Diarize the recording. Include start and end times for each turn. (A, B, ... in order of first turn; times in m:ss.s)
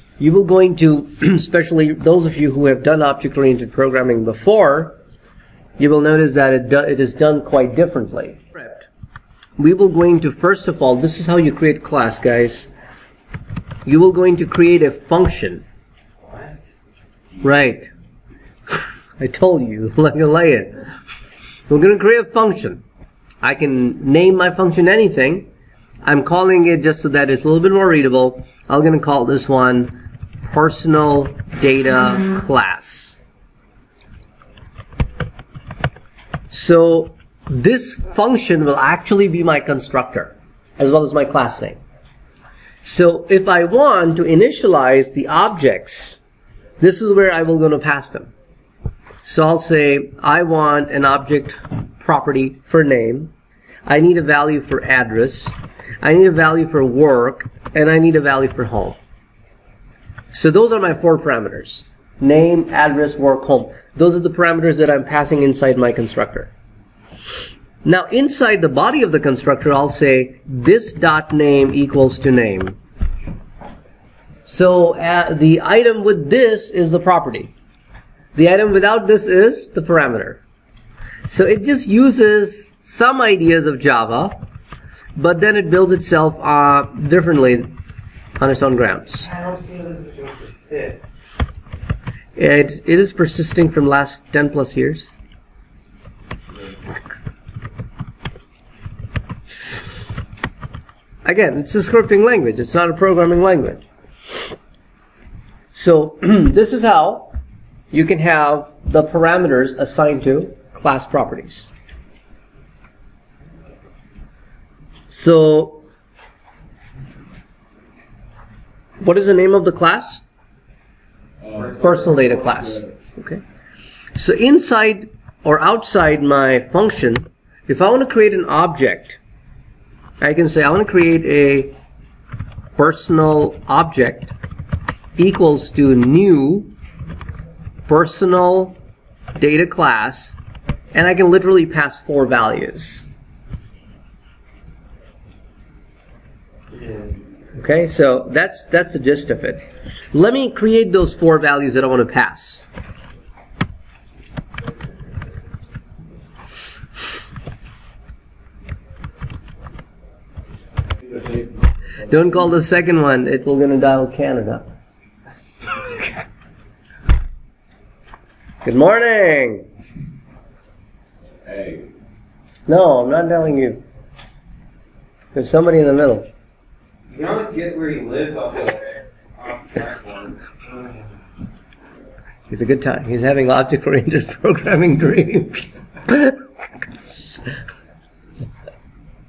0:00.2-0:05.0 A
0:05.8-0:08.9 A
0:09.6-0:12.7 A
0:13.8-0:15.6 A
0:16.3-0:16.6 B
0:17.4-0:17.9 A
0:19.2-0:20.8 A
0:21.7-0:22.8 A
0:23.4-0:25.5 A
0:26.0-0:33.2 A
0:36.5-0:41.8 A
0:42.8-0:46.2 A
0:46.8-0:48.3 A
0:49.2-0:53.3 A
0:53.8-0:59.0 A
1:00.3-1:06.5 A
1:07.8-1:12.8 A
1:14.4-1:17.5 A
1:18.3-1:20.4 A
1:21.3-1:24.4 A
1:25.2-1:27.7 A
1:28.4-1:29.3 A
1:29.2-1:31.0 B
1:32.4-1:35.1 A
1:41.2-1:43.8 A
1:45.7-1:47.3 A
1:47.9-1:51.7 A
1:55.1-1:55.8 A
1:59.0-2:00.2 A
2:01.4-2:02.9 C
2:01.8-2:03.4 A
2:04.1-2:09.2 A
2:10.2-2:11.7 A
2:12.8-2:14.3 A
2:15.2-2:16.7 A
2:17.9-2:18.8 A
2:19.4-2:20.4 A
2:20.9-2:23.1 A
2:26.7-2:27.1 B
2:27.6-2:32.6 A
2:41.0-2:42.1 C
2:42.1-2:44.7 A
2:48.6-2:49.6 A
2:51.4-2:51.9 C
2:52.7-2:53.8 A
2:55.3-2:56.3 A
2:57.1-3:01.0 B
3:02.5-3:06.4 A